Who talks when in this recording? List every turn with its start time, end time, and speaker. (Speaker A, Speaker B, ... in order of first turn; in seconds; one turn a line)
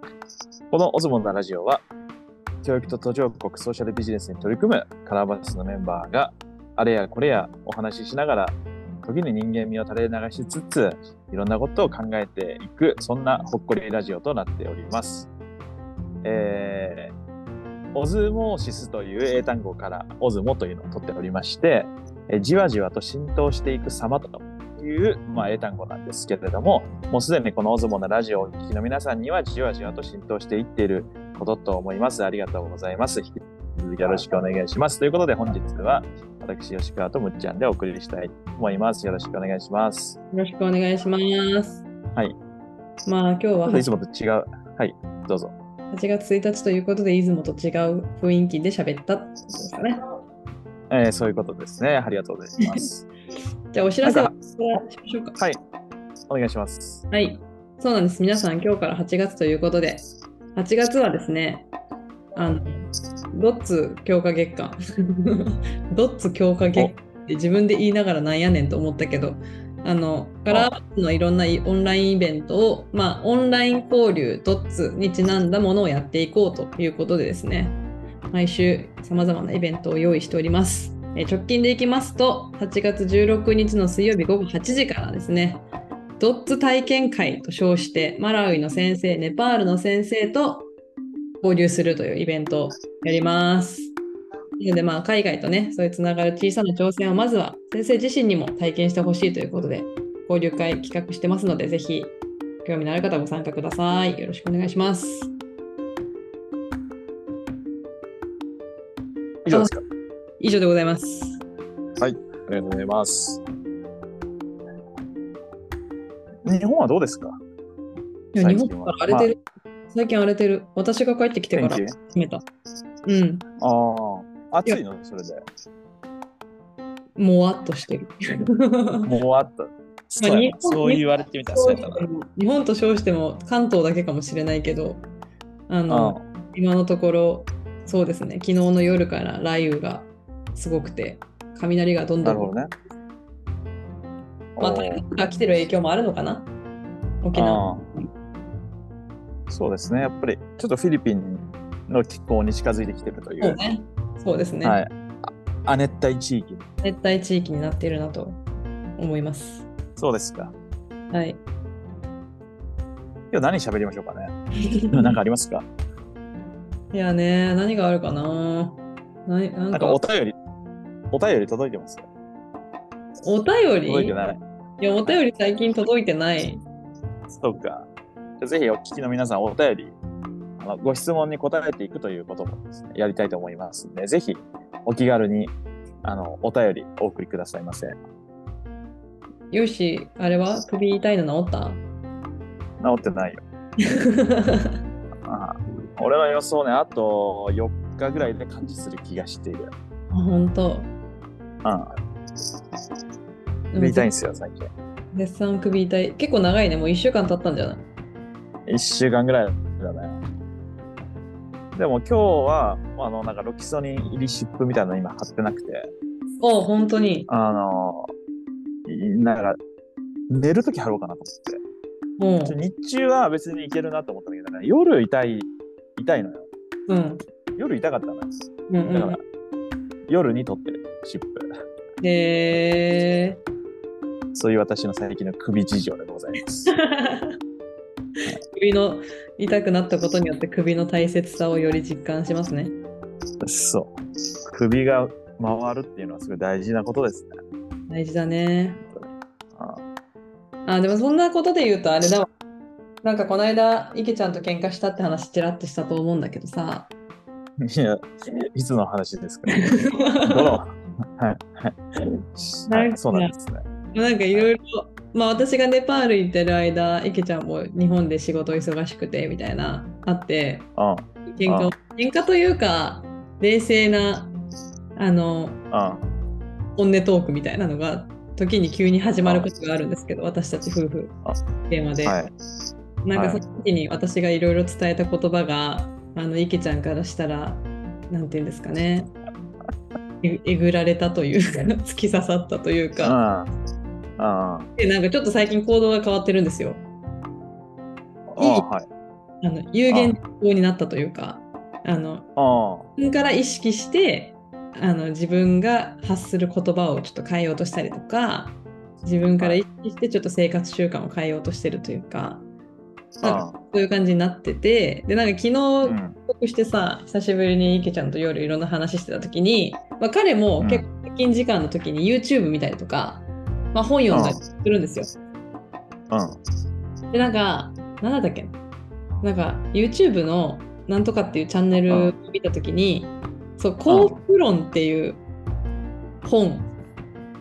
Speaker A: 0.7-1.9
Speaker A: 2.6-15.3
Speaker A: 16.2-17.1
Speaker A: 17.9-40.2
Speaker B: 40.3-41.8
Speaker B: 43.0-43.9
Speaker A: 43.7-45.5
Speaker B: 45.9-50.0
Speaker A: 50.9-53.1
Speaker B: 53.7-55.4
Speaker A: 54.0-54.3
Speaker A: 56.3-57.0
Speaker B: 57.1-60.0
Speaker B: 60.5-61.7
Speaker B: 62.3-62.7
Speaker B: 63.3-77.8
Speaker B: 78.3-85.7
Speaker B: 86.2-90.7
Speaker B: 91.4-93.9
Speaker B: 94.6-105.3
Speaker A: 109.4-109.8
Speaker B: 109.5-109.8
Speaker B: 110.4-111.4
Speaker A: 112.0-113.4
Speaker A: 116.5-117.4
Speaker B: 118.3-119.4
Speaker A: 118.4-119.3
Speaker B: 119.9-122.4
Speaker A: 121.5-122.0
Speaker B: 123.0-123.4
Speaker A: 123.6-125.4
Speaker B: 127.2-129.1
Speaker A: 129.1-132.1
Speaker B: 130.2-135.1
Speaker B: 135.7-142.6
Speaker A: 135.9-136.2
Speaker A: 142.2-142.7
Speaker A: 144.6-145.1
Speaker B: 144.6-146.5
Speaker B: 147.2-148.1
Speaker A: 147.3-147.8
Speaker A: 149.5-153.6
Speaker B: 153.4-154.8
Speaker A: 154.6-156.6
Speaker B: 156.8-158.4
Speaker B: 159.0-159.7
Speaker A: 160.0-160.5
Speaker B: 161.1-161.4
Speaker A: 163.3-164.3
Speaker B: 164.7-165.2
Speaker A: 164.9-165.7
Speaker B: 166.9-170.0
Speaker A: 169.7-170.4
Speaker A: 171.1-172.1
Speaker B: 173.2-174.2
Speaker A: 173.8-174.4
Speaker B: 174.8-176.6
Speaker A: 177.3-177.9
Speaker A: 178.4-180.0
Speaker A: 180.6-188.0
Speaker B: 189.5-191.8
Speaker A: 192.8-193.4
Speaker B: 194.0-194.8
Speaker A: 195.3-199.7
Speaker B: 200.1-200.9
Speaker B: 203.7-204.1
Speaker A: 203.8-204.7
Speaker B: 205.1-207.8
Speaker A: 208.7-210.2
Speaker A: 211.8-215.9
Speaker B: 216.4-217.3
Speaker A: 217.3-218.1
Speaker A: 218.9-219.6
Speaker A: 220.3-221.6
Speaker B: 222.2-222.6
Speaker A: 222.4-226.5
Speaker B: 226.9-227.2
Speaker A: 227.6-228.3
Speaker B: 228.7-229.2
Speaker A: 228.9-229.2
Speaker A: 230.1-231.4
Speaker B: 232.0-233.4
Speaker A: 234.3-236.7
Speaker B: 236.7-237.4
Speaker B: 238.5-242.8
Speaker A: 243.4-243.9
Speaker A: 244.5-247.3
Speaker B: 247.9-248.9
Speaker A: 249.6-249.8
Speaker B: 250.7-252.3
Speaker B: 253.0-256.9
Speaker A: 257.6-259.7
Speaker B: 259.5-260.6
Speaker A: 260.2-261.8
Speaker A: 262.4-263.6
Speaker B: 262.7-263.3
Speaker B: 263.9-270.7
Speaker A: 270.8-271.8
Speaker B: 271.3-274.3
Speaker B: 275.0-275.6
Speaker A: 275.7-276.1
Speaker B: 276.8-281.1
Speaker A: 279.2-279.5
Speaker B: 281.7-282.2
Speaker A: 282.1-282.3
Speaker B: 283.1-289.1
Speaker A: 283.1-283.4
Speaker B: 290.2-293.2
Speaker A: 293.0-293.5
Speaker A: 294.2-294.7
Speaker B: 294.8-296.8
Speaker A: 298.3-298.9
Speaker B: 298.4-298.7
Speaker B: 299.4-302.3
Speaker A: 299.9-300.2
Speaker A: 302.4-302.9
Speaker B: 303.0-312.4
Speaker A: 313.2-313.6
Speaker B: 313.2-325.1
Speaker A: 315.8-316.2
Speaker A: 320.6-320.9
Speaker A: 324.1-324.4
Speaker A: 326.1-326.4
Speaker B: 327.1-328.6
Speaker B: 329.2-335.2
Speaker A: 331.9-332.1
Speaker A: 333.9-334.2
Speaker B: 336.2-336.7